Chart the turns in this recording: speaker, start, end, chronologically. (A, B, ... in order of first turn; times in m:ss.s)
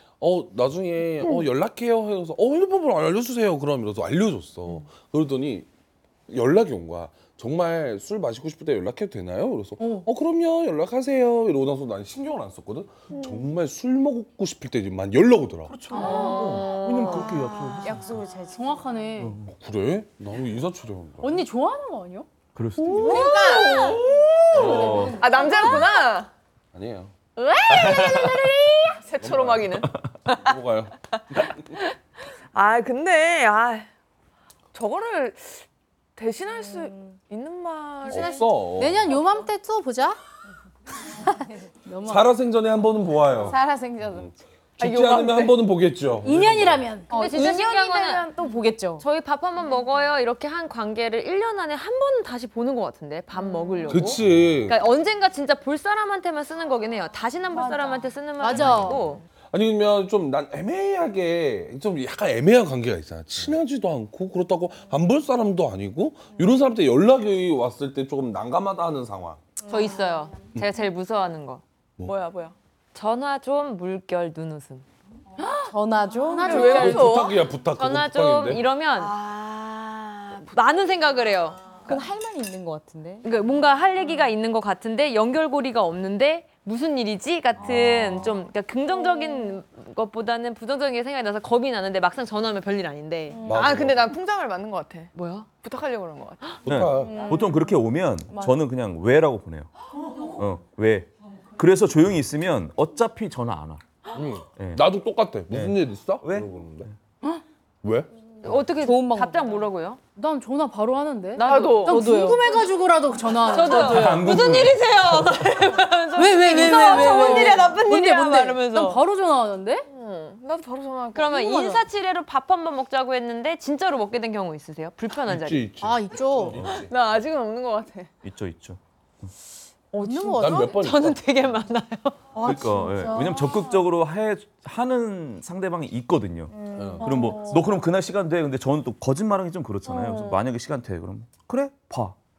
0:00.2-0:05.7 A
0:06.3-0:15.9 A
0:09.8-0:10.1 B
0:15.7-0:18.1 C
0:15.9-0:16.6 B
0:16.0-0:17.3 D
0:16.0-0:16.9 E
0:17.8-0:18.8 E
0:18.5-0:19.3 B
0:19.2-0:19.5 C
0:19.4-0:21.4 A
0:21.2-0:22.3 B
0:22.6-0:23.8 C
0:22.9-0:23.6 B
0:23.0-0:24.0 F
0:24.5-0:25.3 C
0:24.5-0:25.6 B
0:24.6-0:26.3 F
0:24.6-0:25.5 E
0:26.7-0:27.1 A
0:27.4-0:29.9 F
0:27.7-0:28.5 C
0:29.2-0:29.8 A
0:30.3-0:30.9 A
0:32.5-0:33.9 F
0:34.7-0:35.6 F
0:36.2-0:38.4 F
0:38.1-0:39.2 A
0:38.1-0:40.2 B
0:41.0-0:42.3 B
0:42.0-0:43.6 A
0:43.5-0:44.2 E
0:44.1-0:46.9 A
0:44.8-0:45.6 F
0:46.2-0:47.1 B
0:47.1-0:49.0 E
0:47.1-0:48.3 D
0:49.0-0:59.2 D
0:53.4-0:54.2 F
0:53.9-0:54.8 A
0:57.5-0:58.9 F
0:58.4-0:59.0 B
0:59.5-1:09.4 A
1:09.7-1:11.6 D
1:12.0-1:12.5 F
1:12.9-1:14.8 D
1:15.4-1:15.7 F
1:15.7-1:17.0 E
1:16.2-1:17.1 B
1:16.4-1:17.4 F
1:16.6-1:18.6 A
1:17.8-1:19.1 D
1:19.0-1:20.5 F
1:20.5-1:21.8 D
1:21.8-1:23.2 E
1:23.2-1:33.5 D
1:33.4-1:34.1 A
1:33.5-1:36.6 F
1:35.1-1:35.5 D
1:36.6-1:37.3 A
1:36.7-1:39.7 C
1:37.1-1:37.6 E
1:40.4-1:43.8 C
1:44.1-1:46.9 A
1:44.5-1:44.8 C
1:45.5-1:46.9 C
1:47.8-1:48.1 A
1:48.4-1:50.0 D
1:48.5-1:49.6 E
1:50.2-1:54.3 B
1:51.4-1:52.4 D
1:51.4-1:52.0 F
1:51.9-1:52.4 E
1:53.5-1:59.0 D
1:53.8-1:55.7 C
1:56.1-1:59.8 B
1:56.6-1:57.6 F
1:56.6-1:57.6 E
1:59.9-2:01.8 F
2:01.1-2:05.7 D
2:05.2-2:06.9 A
2:05.8-2:06.6 B
2:06.9-2:08.1 F
2:08.2-2:09.3 C
2:10.0-2:10.4 F
2:10.0-2:10.8 B
2:10.4-2:11.2 A
2:10.6-2:12.2 D
2:12.4-2:22.2 C
2:12.4-2:13.3 B
2:16.8-2:17.1 A
2:16.8-2:17.6 F
2:19.9-2:20.4 F